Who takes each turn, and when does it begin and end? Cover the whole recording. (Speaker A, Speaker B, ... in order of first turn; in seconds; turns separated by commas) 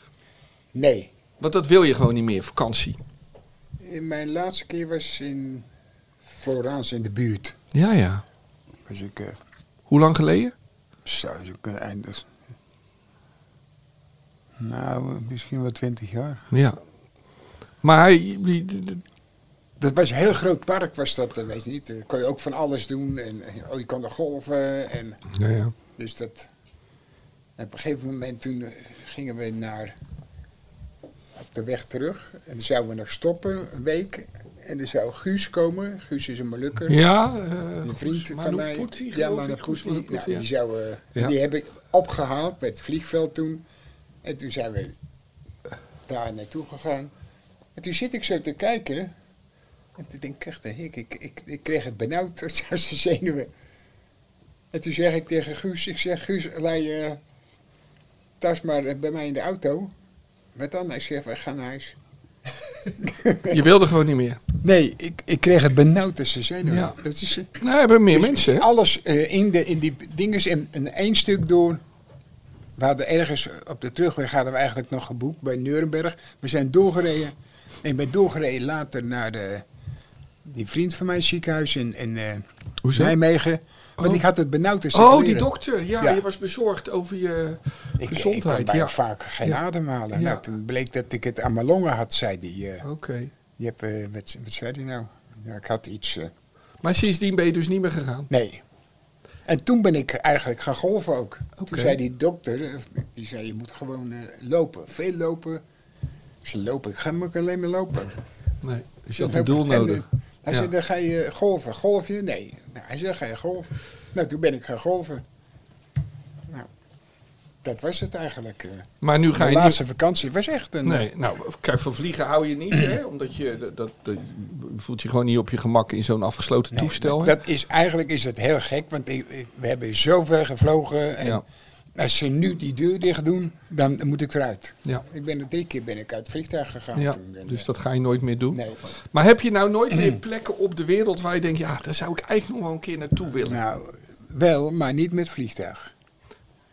Speaker A: 0.7-1.1, Speaker B: 1.4-3.0, Speaker A: 3.8-5.7, Speaker A: 6.2-7.5, Speaker B: 7.7-8.2, Speaker A: 8.9-9.4, Speaker B: 9.9-10.5, Speaker A: 11.0-12.3, Speaker A: 14.6-16.4, Speaker B: 16.5-16.8, Speaker B: 17.8-19.0, Speaker A: 19.8-25.2, Speaker B: 25.3-25.7, Speaker A: 25.9-26.5, Speaker A: 27.6-29.9, Speaker A: 31.3-37.0, Speaker B: 36.9-40.5, Speaker A: 37.8-43.6, Speaker A: 44.2-45.0, Speaker A: 46.1-47.1, Speaker A: 47.7-49.1, Speaker A: 50.0-53.5, Speaker A: 54.7-57.2, Speaker A: 58.4-59.9, Speaker A: 60.5-62.0, Speaker A: 63.0-63.6, Speaker B: 63.5-64.4, Speaker A: 64.6-67.6, Speaker B: 66.7-67.0, Speaker B: 67.6-68.7, Speaker A: 68.1-71.8, Speaker A: 72.8-79.6, Speaker A: 80.4-86.2, Speaker B: 82.8-83.1, Speaker B: 84.0-84.2, Speaker B: 84.9-89.6, Speaker A: 88.0-92.8, Speaker B: 90.1-90.4, Speaker B: 92.8-93.3, Speaker A: 93.6-96.3, Speaker B: 96.8-98.3, Speaker A: 98.3-98.6, Speaker A: 99.5-105.6, Speaker B: 101.6-102.0, Speaker A: 106.4-108.2, Speaker B: 108.6-110.7, Speaker A: 109.1-115.2, Speaker A: 117.6-121.1, Speaker B: 119.0-119.8, Speaker B: 120.8-127.3, Speaker A: 126.7-131.4, Speaker A: 131.9-137.7, Speaker B: 136.9-138.6, Speaker A: 138.5-138.9, Speaker B: 139.1-143.6, Speaker A: 139.9-140.2, Speaker A: 143.4-145.9